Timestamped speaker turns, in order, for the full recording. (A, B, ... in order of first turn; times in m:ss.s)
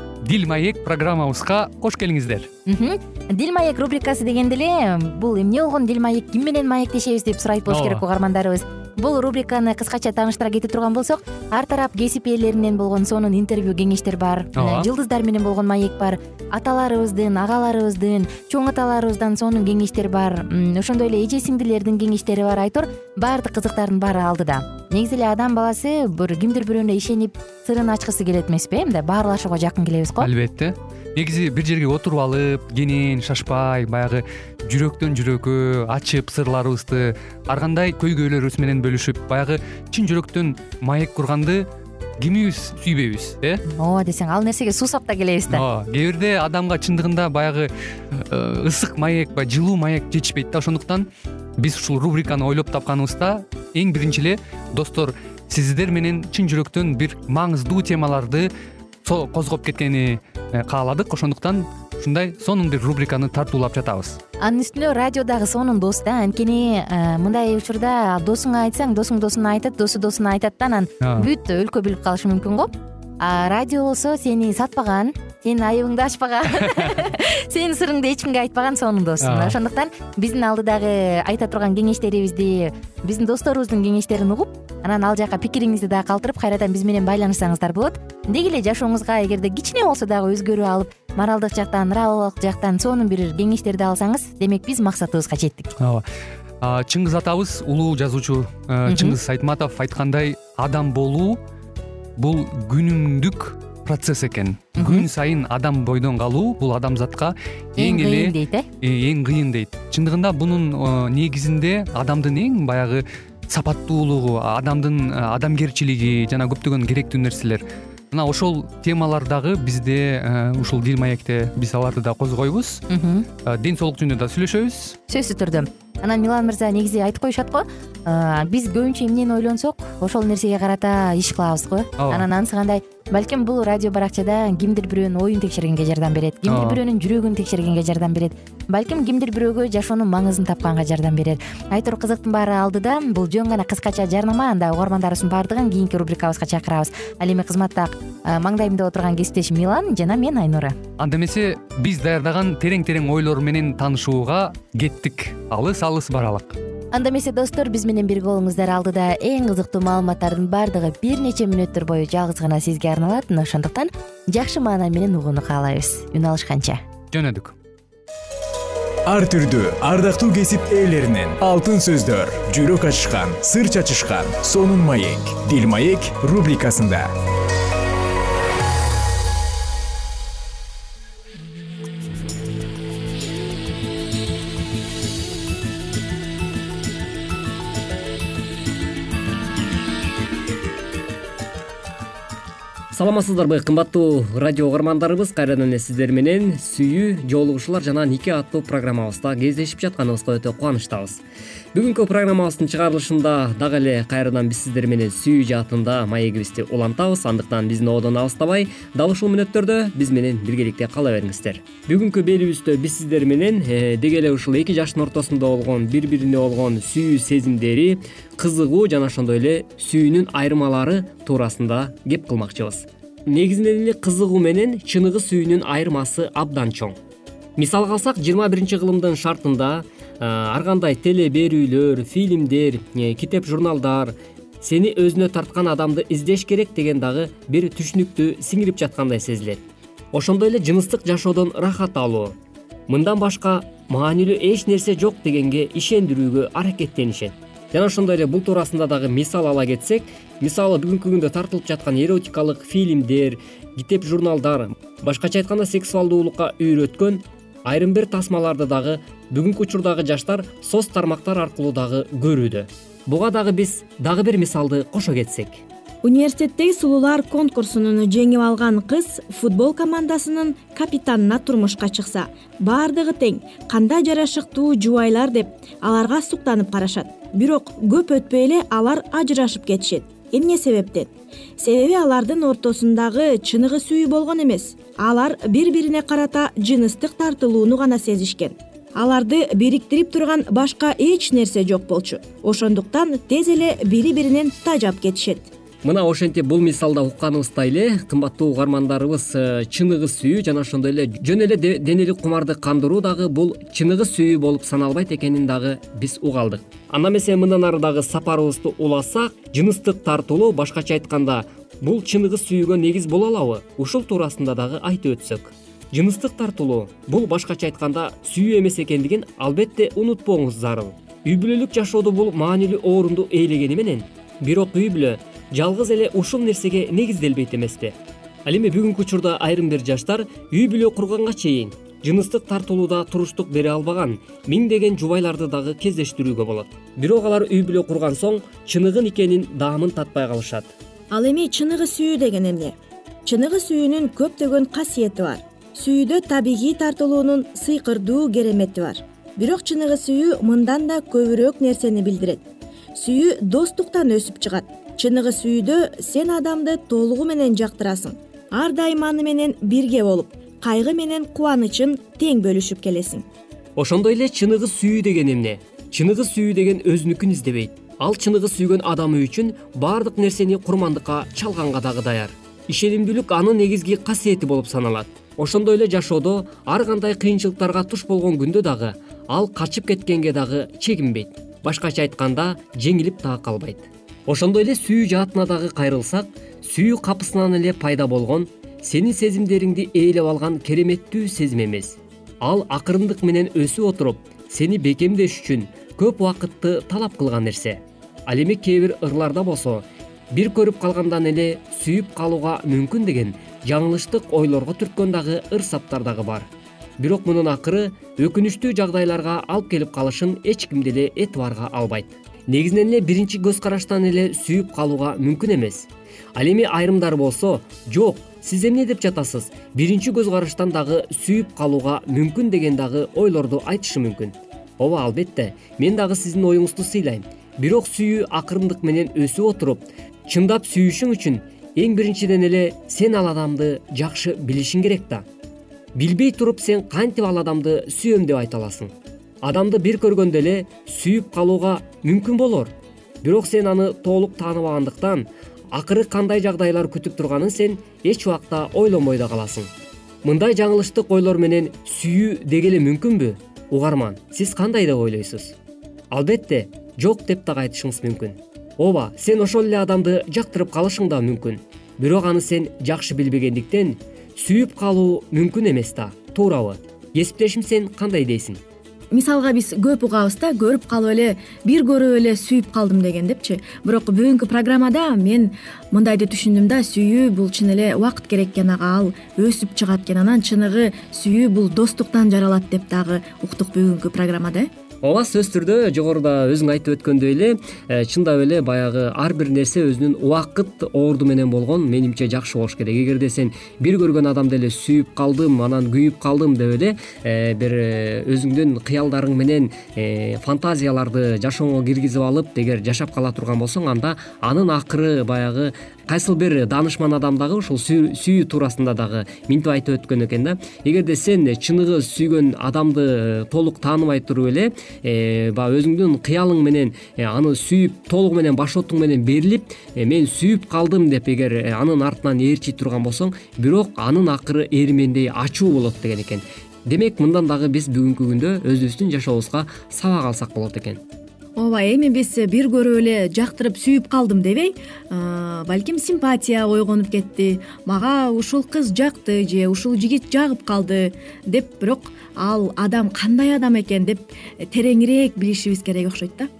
0:00.2-0:02.5 A
0:02.7-0:30.3 B
0:07.7-0:08.0 A
0:14.6-0:14.9 A
0:30.2-0:41.7 A
0:42.2-0:43.6 A
0:43.8-0:45.6 B
0:45.5-0:51.1 A
0:51.6-0:58.5 A
0:59.0-1:04.2 A
1:04.4-1:35.7 B
1:11.0-1:11.3 A
1:16.7-1:17.0 A
1:19.2-1:19.6 A
1:35.8-1:36.0 A
1:36.6-1:41.4 A
1:38.9-1:39.2 B
1:42.2-2:02.8 A
1:44.8-1:45.1 B
1:47.8-1:48.7 B
2:02.9-2:03.3 B
2:03.4-2:05.0 A
2:05.1-2:30.8 B
2:12.0-2:12.3 A
2:16.5-2:16.8 A
2:31.0-2:36.6 A
2:36.9-2:46.8 B
2:47.1-2:47.5 A
2:49.1-2:57.1 C
3:12.9-3:21.2 D
3:21.7-3:47.0 D
3:47.6-3:59.6 D
4:00.1-4:02.3 D
4:02.9-4:25.6 D
4:26.0-4:55.5 E
4:55.8-5:28.0 D
5:28.5-5:40.7 D
5:41.1-5:52.4 E
5:53.0-6:03.2 E
6:03.8-6:46.5 D
6:47.0-7:15.3 D
7:16.0-7:18.9 D
7:19.4-7:29.7 D
7:30.2-7:35.6 D
7:36.1-7:48.6 D
7:49.1-8:04.7 E
8:05.0-8:51.0 D
8:51.6-9:06.5 E